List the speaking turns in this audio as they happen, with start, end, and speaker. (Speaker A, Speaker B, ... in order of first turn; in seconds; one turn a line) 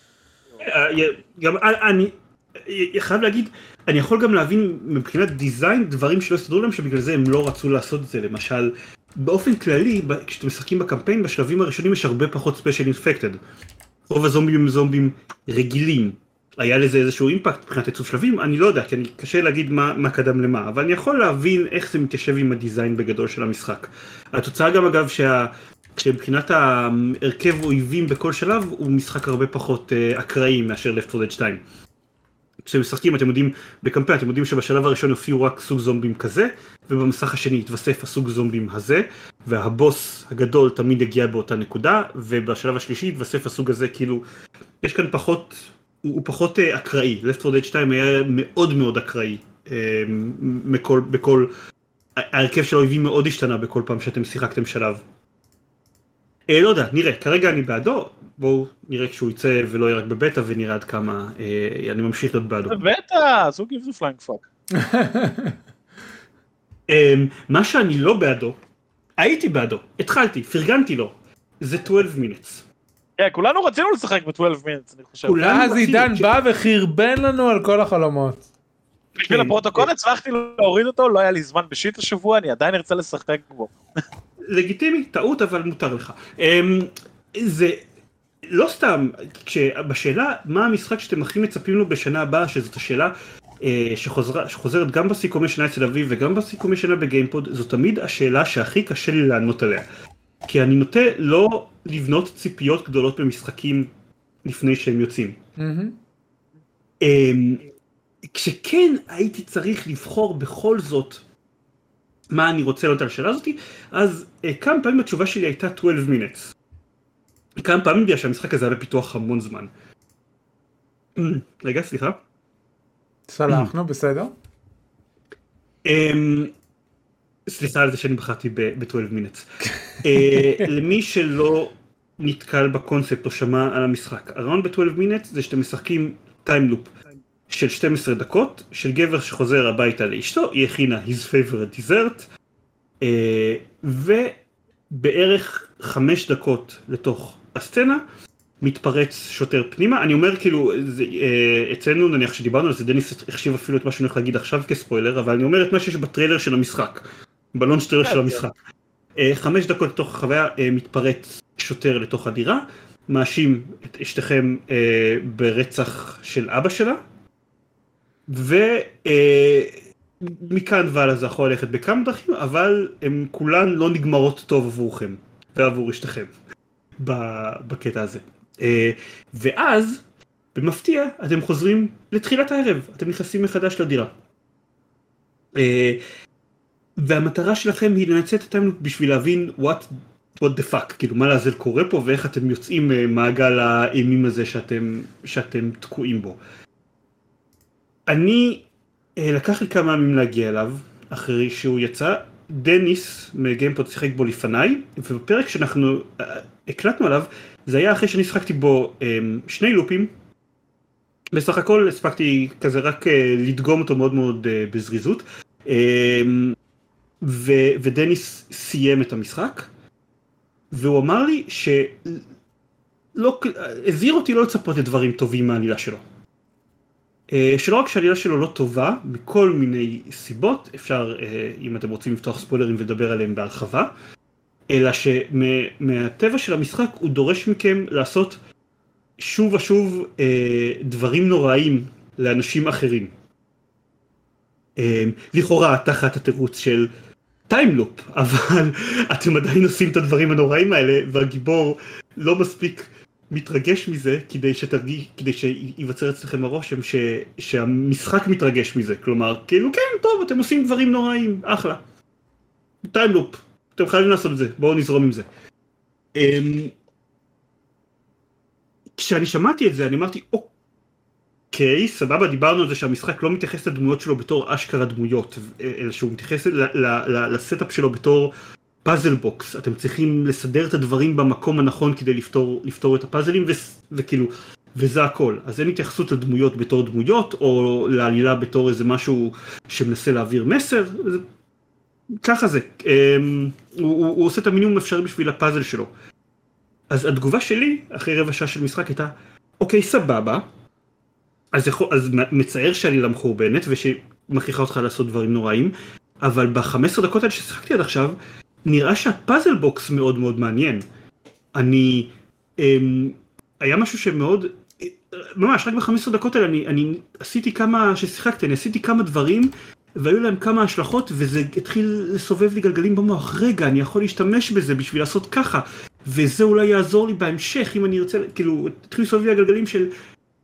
Speaker A: 0.6-13.4
Speaker A: 14.1-31.6
Speaker A: 32.6-44.2
Speaker A: 44.8-51.5
Speaker A: 52.2-55.0
Speaker A: 56.5-62.8
Speaker B: 62.7-64.5
Speaker C: 64.7-65.6
Speaker A: 66.9-68.5
Speaker A: 69.2-72.6
Speaker B: 73.2-75.6
Speaker A: 75.3-76.3
Speaker C: 75.4-78.4
Speaker B: 79.2-83.7
Speaker A: 79.2-79.9
Speaker A: 84.5-87.8
Speaker A: 88.5-99.9
Speaker A: 100.5-103.9
Speaker A: 104.4-105.4
Speaker C: 105.6-106.0
Speaker A: 107.0-107.7
Speaker A: 108.2-111.2
Speaker A: 112.3-116.5
Speaker A: 117.6-119.7
Speaker A: 121.2-122.2
Speaker C: 123.3-124.3
Speaker A: 125.8-126.5
Speaker A: 127.5-129.5
Speaker A: 130.0-136.9
Speaker C: 130.2-130.7
Speaker A: 137.5-142.3
Speaker A: 143.0-144.4
Speaker A: 144.9-148.0
Speaker A: 148.6-158.5
Speaker B: 158.0-158.4
Speaker A: 159.2-167.0
Speaker A: 168.3-176.3
Speaker A: 177.0-180.0
Speaker A: 180.5-184.1
Speaker A: 185.6-186.0
Speaker A: 187.0-196.4
Speaker A: 198.1-198.6
Speaker A: 199.2-210.1
Speaker A: 211.3-216.6
Speaker A: 217.2-219.7
Speaker A: 220.7-222.2
Speaker A: 223.1-226.0
Speaker A: 227.3-233.9
Speaker A: 234.7-238.4
Speaker A: 239.2-243.1
Speaker A: 244.8-246.9
Speaker A: 247.5-261.8
Speaker A: 262.9-265.2
Speaker A: 266.1-266.7
Speaker A: 269.0-270.5
Speaker A: 271.5-278.3
Speaker A: 278.8-291.2
Speaker A: 292.2-295.9
Speaker A: 296.9-300.4
Speaker A: 301.5-310.8
Speaker A: 311.5-329.9